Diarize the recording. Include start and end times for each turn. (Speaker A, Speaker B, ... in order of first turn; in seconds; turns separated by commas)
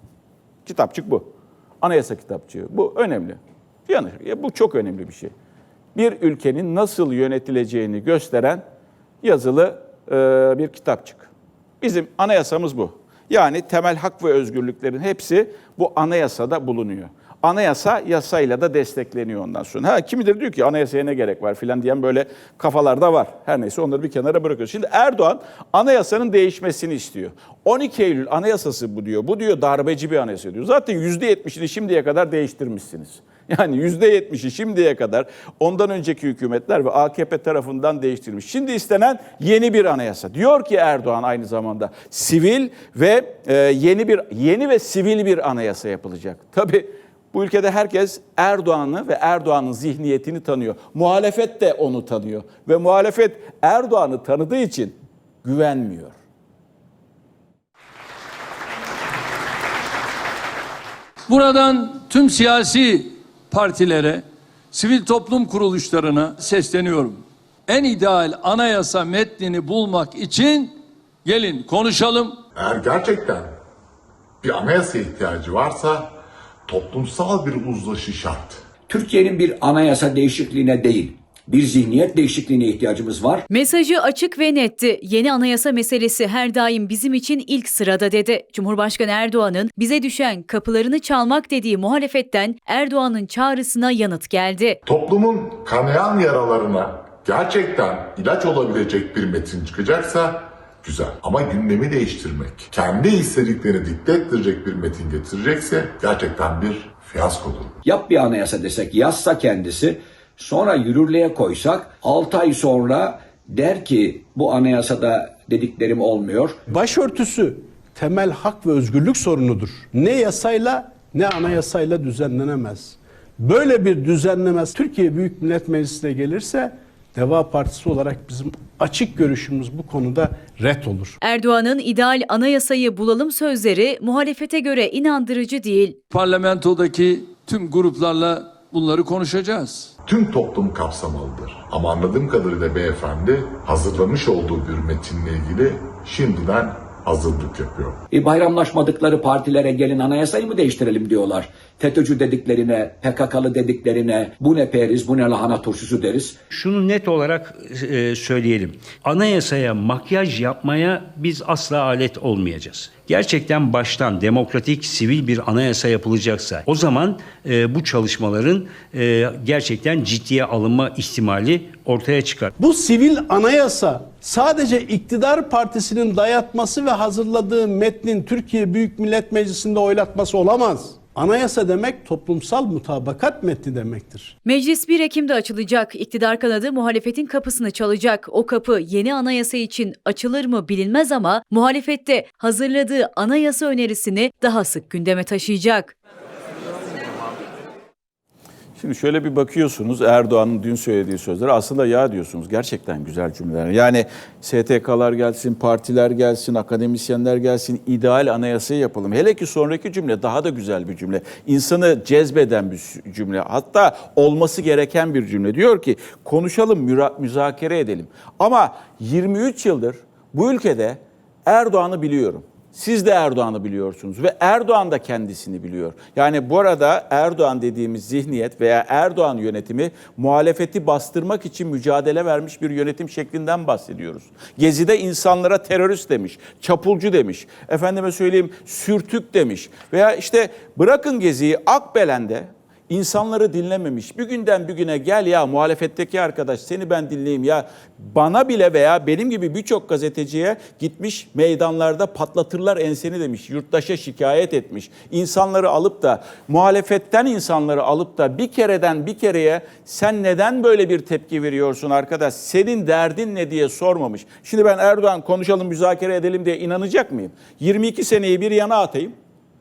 Speaker A: 0.7-1.2, Speaker A: 1.8-5.3, Speaker A: 6.0-8.6, Speaker A: 9.2-11.3, Speaker A: 11.8-56.1, Speaker B: 61.3-72.4, Speaker C: 72.6-73.5, Speaker C: 74.4-76.2, Speaker C: 76.7-78.6, Speaker D: 78.9-83.4, Speaker E: 83.5-94.8, Speaker C: 94.9-107.8, Speaker D: 107.8-116.6, Speaker F: 116.7-131.2, Speaker E: 131.2-136.0, Speaker B: 136.1-139.9, Speaker C: 140.1-148.0, Speaker D: 148.1-156.4, Speaker G: 156.5-172.5, Speaker F: 172.6-184.3, Speaker E: 184.4-195.9, Speaker A: 198.8-269.1